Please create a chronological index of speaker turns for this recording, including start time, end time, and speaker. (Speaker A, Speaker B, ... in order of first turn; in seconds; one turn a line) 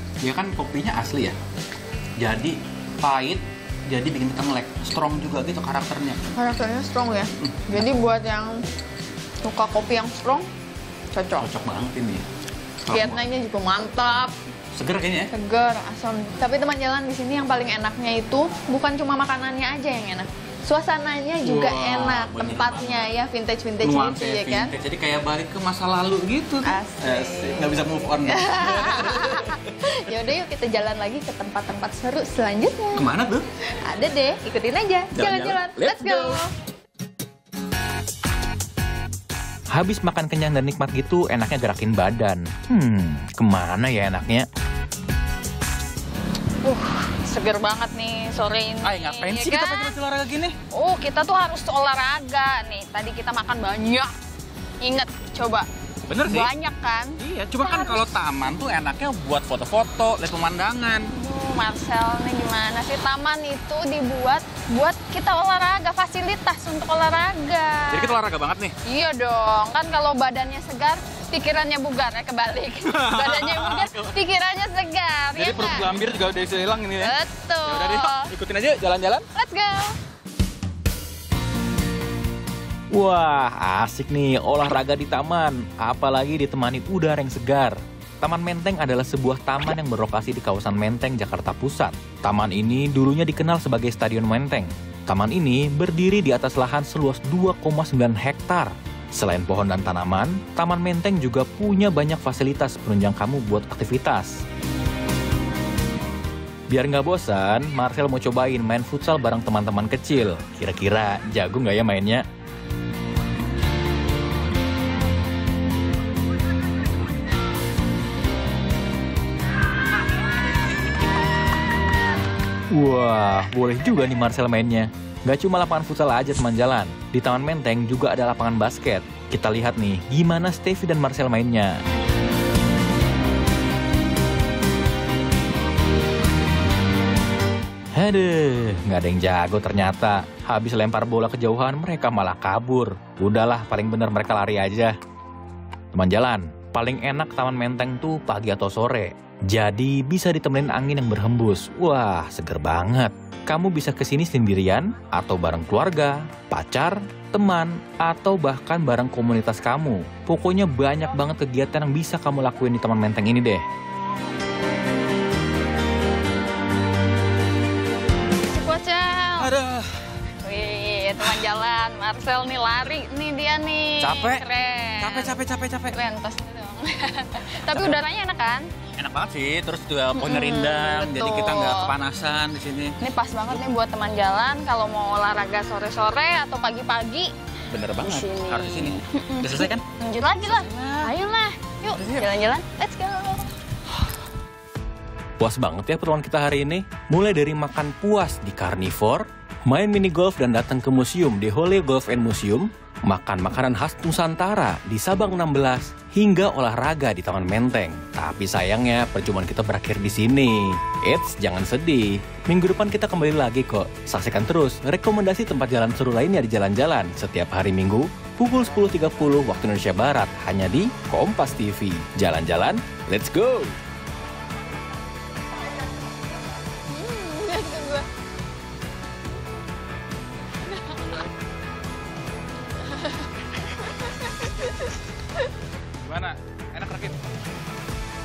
Speaker A: 0.2-1.4
Speaker A: 2.2-6.3
Speaker B: 6.3-8.6
Speaker A: 7.4-7.6
Speaker B: 9.4-10.5
Speaker B: 11.1-11.5
Speaker A: 11.4-12.2
Speaker A: 12.8-13.2
Speaker B: 12.9-14.3
Speaker A: 14.7-15.3
Speaker B: 15.3-24.7
Speaker A: 21.4-23.1
Speaker A: 23.8-30.0
Speaker B: 26.6-33.1
Speaker A: 33.0-33.4
Speaker B: 33.8-36.5
Speaker A: 35.1-36.4
Speaker C: 39.7-44.5
Speaker B: 46.6-50.0
Speaker A: 48.8-50.6
Speaker B: 50.7-54.1
Speaker B: 54.8-55.7
Speaker A: 56.1-56.5
Speaker B: 56.2-58.0
Speaker A: 57.2-61.1
Speaker B: 61.1-68.2
Speaker A: 67.9-68.7
Speaker B: 68.8-75.9
Speaker A: 72.8-74.1
Speaker A: 75.3-79.2
Speaker B: 77.0-78.3
Speaker B: 79.3-80.0
Speaker C: 82.9-104.4
Speaker C: 106.7-112.2
Speaker C: 122.7-131.8
Speaker C: 137.9-144.9
Speaker C: 145.9-163.6
Speaker B: 168.4-169.5
Speaker A: 169.4-170.1
Speaker B: 170.4-178.7
Speaker A: 174.0-174.4
Speaker A: 175.0-176.0
Speaker A: 177.7-178.0
Speaker A: 179.0-183.0
Speaker B: 180.1-181.9
Speaker B: 183.0-187.3
Speaker A: 187.7-191.1
Speaker B: 188.0-193.4
Speaker A: 192.0-192.3
Speaker C: 195.4-223.8
Speaker B: 226.9-228.1
Speaker B: 230.7-231.1
Speaker B: 232.9-234.9
Speaker A: 236.0-237.2